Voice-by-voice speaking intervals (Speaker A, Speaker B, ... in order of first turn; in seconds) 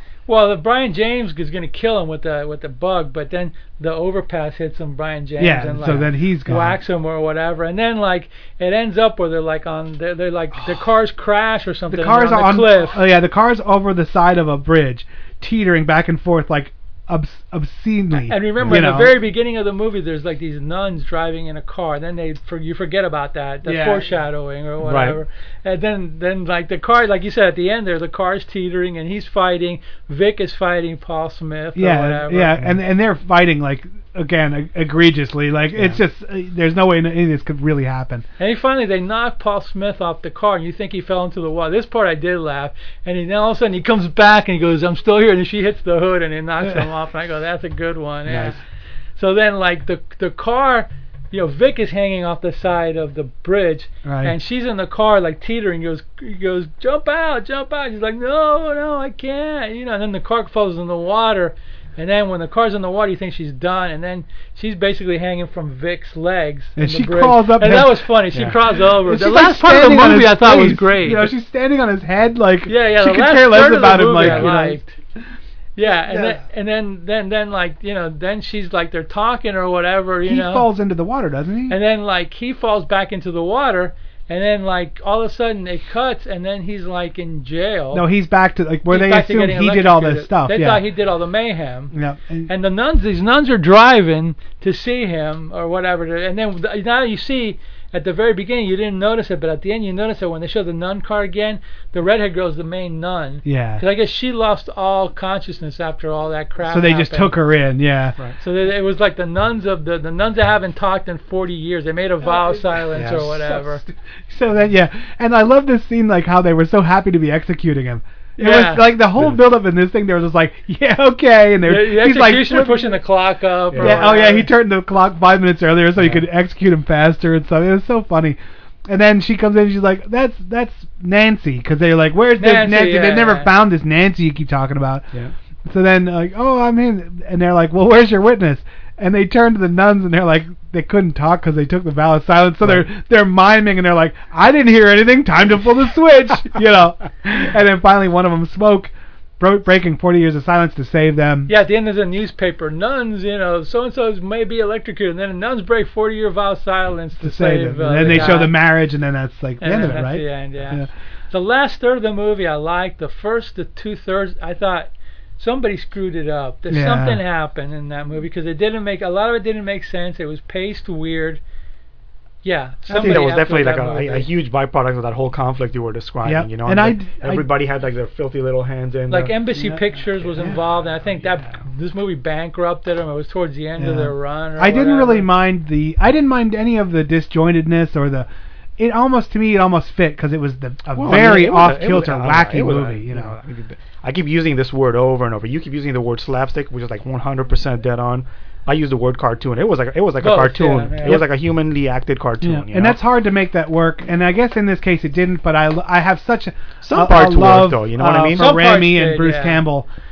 Speaker A: 0.3-13.1, 18.2-32.6, 38.4-48.6, 49.2-71.3, 72.7-74.9, 75.8-80.7, 81.7-88.1, 88.9-91.9, 92.5-107.4, 108.4-113.8, 118.4-119.0, 121.7-124.5, 132.4-133.5, 151.5-158.6, 159.6-171.4, 172.4-174.3, 179.1-185.3, 200.2-201.3, 208.3-209.6
Speaker B: 5.4-6.8, 11.9-19.1, 23.6-24.1, 31.8-38.3, 54.0-54.4, 66.8-68.1, 68.9-74.8, 76.1-76.4, 80.2-81.8, 87.9-90.8, 91.9-92.5, 103.5-103.8, 106.6-108.2, 112.2-123.0, 123.8-135.1, 135.7-151.5, 157.2-160.9, 166.7-167.2, 172.9-173.3, 176.2-177.5, 183.8-193.4, 202.4-209.9
Speaker C: 18.6-18.9, 24.8-25.2, 48.3-48.5, 74.2-74.5, 113.0-113.3, 123.7-124.1, 126.0-126.3, 172.9-179.4, 180.2-181.6, 190.9-203.0, 206.8-208.6